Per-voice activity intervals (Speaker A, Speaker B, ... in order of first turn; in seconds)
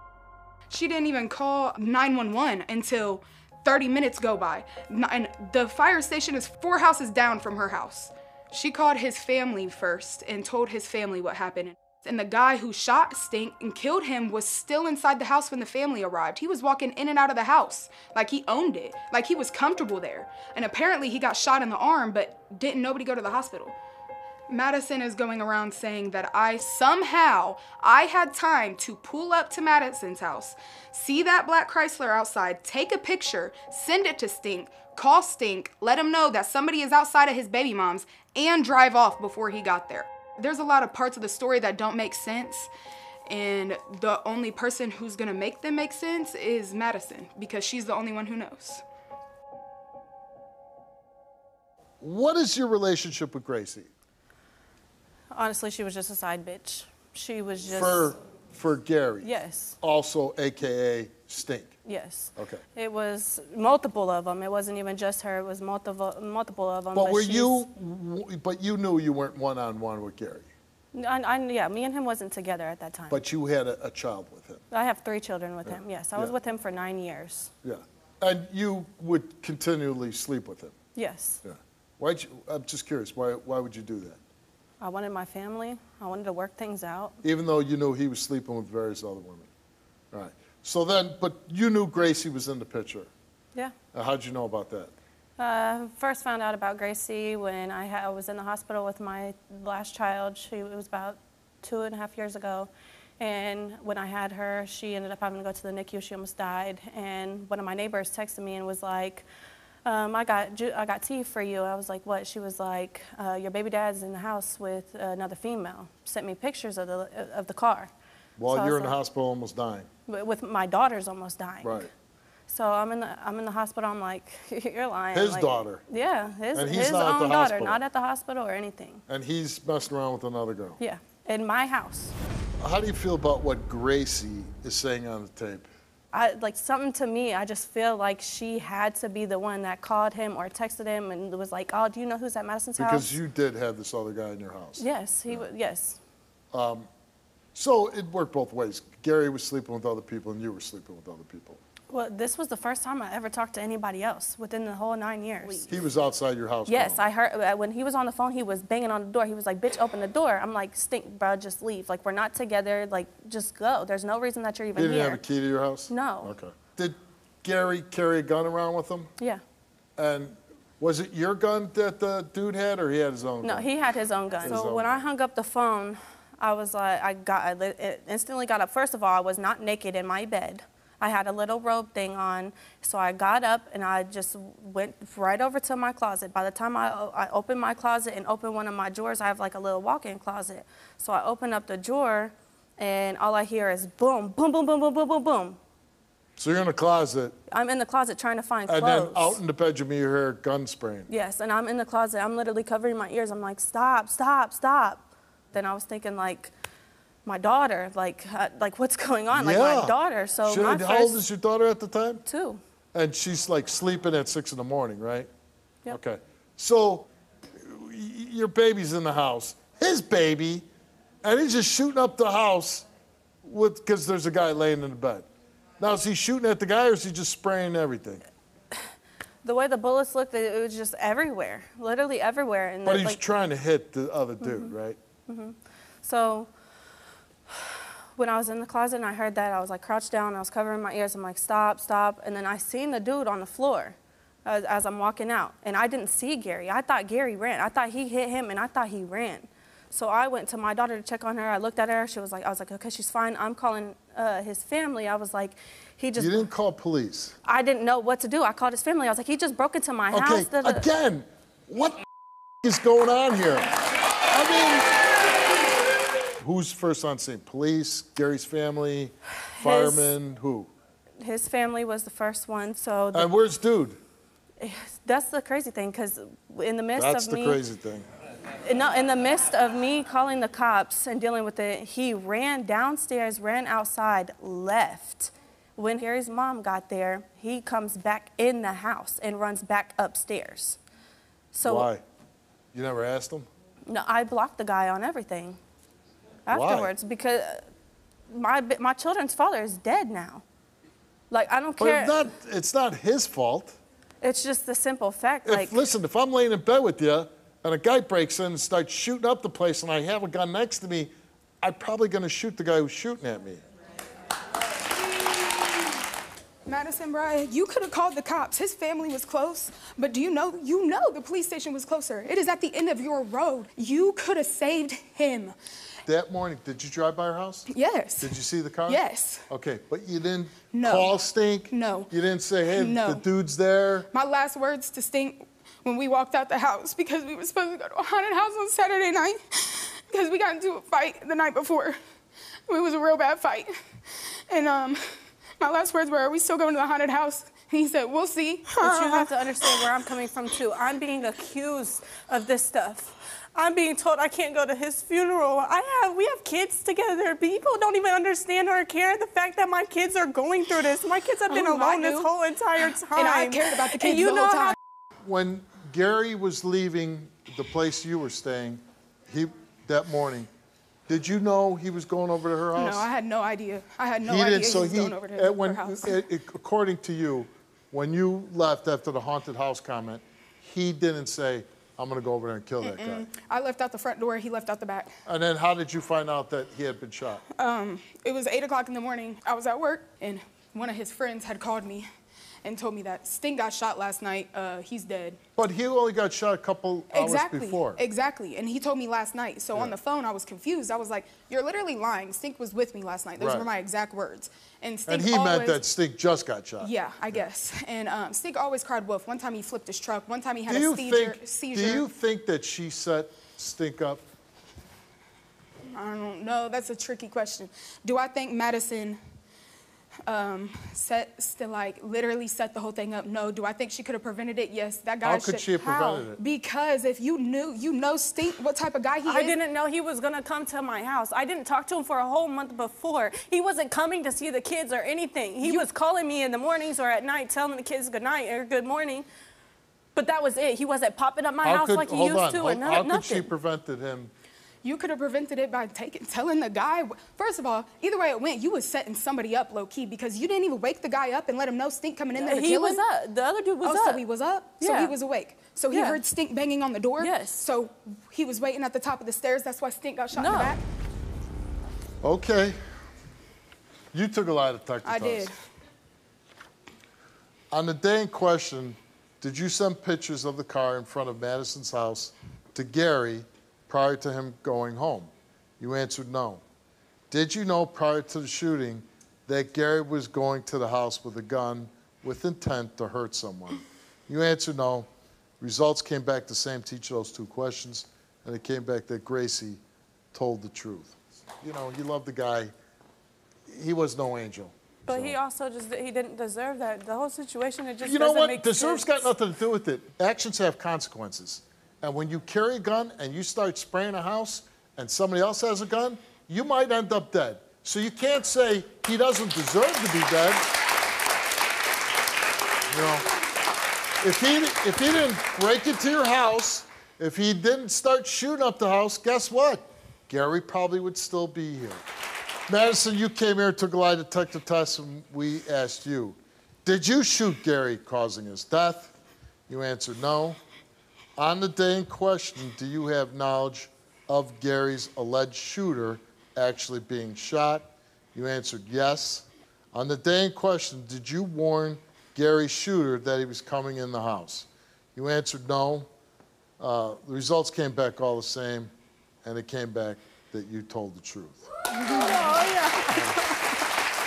Speaker A: 0.7-23.8, 24.5-42.7, 43.3-48.8, 316.6-325.5, 327.7-328.3, 328.9-329.5, 330.7-331.1, 331.7-332.1, 332.7-333.2, 334.1-341.9, 342.7-345.0, 345.6-349.9, 361.5-364.7, 372.7-376.2, 382.8-385.1, 387.5-392.1, 392.6-395.4, 397.1-405.8, 406.8-412.1, 415.9-419.2, 420.3-429.6, 435.6-435.9, 444.8-453.0, 453.8-460.8, 465.0-465.5
Speaker B: 52.0-53.9, 57.7-61.7, 62.4-62.6, 66.9-70.5, 73.1-74.6, 75.6-76.3, 77.6-80.7, 81.4-84.2, 87.2-89.5, 90.1-93.1, 93.9-94.9, 118.4-119.9, 121.6-121.9, 125.1-125.8, 126.5-127.8, 129.1-130.8, 132.6-135.7, 142.8-145.5, 146.5-146.9, 147.5-151.6, 155.7-157.1, 164.8-169.1, 170.0-173.7, 174.4-175.0, 196.4-197.3, 198.7-201.1, 209.3-212.2, 212.9-215.3, 215.9-220.7, 221.2-222.9, 223.4-225.3, 225.8-228.2, 232.8-235.0, 256.1-257.4, 260.1-262.0, 262.6-263.7, 264.3-264.9, 266.4-270.7, 273.1-274.0, 277.0-278.1, 291.6-292.0, 292.7-293.5, 296.5-296.9, 301.8-303.8, 305.4-311.1, 311.6-313.6, 326.1-327.7, 328.2-334.1, 365.2-370.5, 371.1-373.1, 374.2-383.3, 385.2-387.4, 395.6-398.0, 403.4-403.6, 405.1-407.4, 410.7-414.2, 425.2-426.4, 441.6-444.3, 462.2-462.8, 464.1-465.5, 467.7-476.6, 477.3-485.1, 485.6-489.8, 490.3-492.7, 493.7-495.4, 498.0-510.6, 512.9-513.3, 514.2-522.0, 522.7-529.1, 529.7-530.6, 531.4-546.1, 546.8-548.9, 549.4-551.6
Speaker C: 55.3-58.1, 59.2-59.8, 61.8-67.6, 70.9-73.2, 74.7-77.5, 80.9-81.4, 84.8-87.2, 95.4-109.2, 109.8-117.9, 118.5-119.0, 120.1-121.8, 122.5-129.0, 130.8-132.1, 136.1-143.1, 144.8-146.0, 151.9-155.7, 156.7-165.2, 165.9-166.3, 173.4-195.6, 197.5-199.4, 201.1-206.5, 207.2-211.2, 212.2-212.6, 229.4-233.2, 234.4-234.7, 235.3-236.5, 237.5-256.4, 257.4-260.9, 269.5-270.1, 271.2-273.3, 274.6-277.6, 278.6-290.8, 291.5-291.9, 293.9-295.6, 296.4-297.6, 298.3-300.4, 301.3-302.2, 304.2-305.8, 348.8-364.7, 429.2-439.2, 440.1-443.5, 452.4-454.2, 454.8-455.1, 455.9-456.2, 457.2-457.6, 460.3-460.8, 495.1-499.3, 551.9-553.7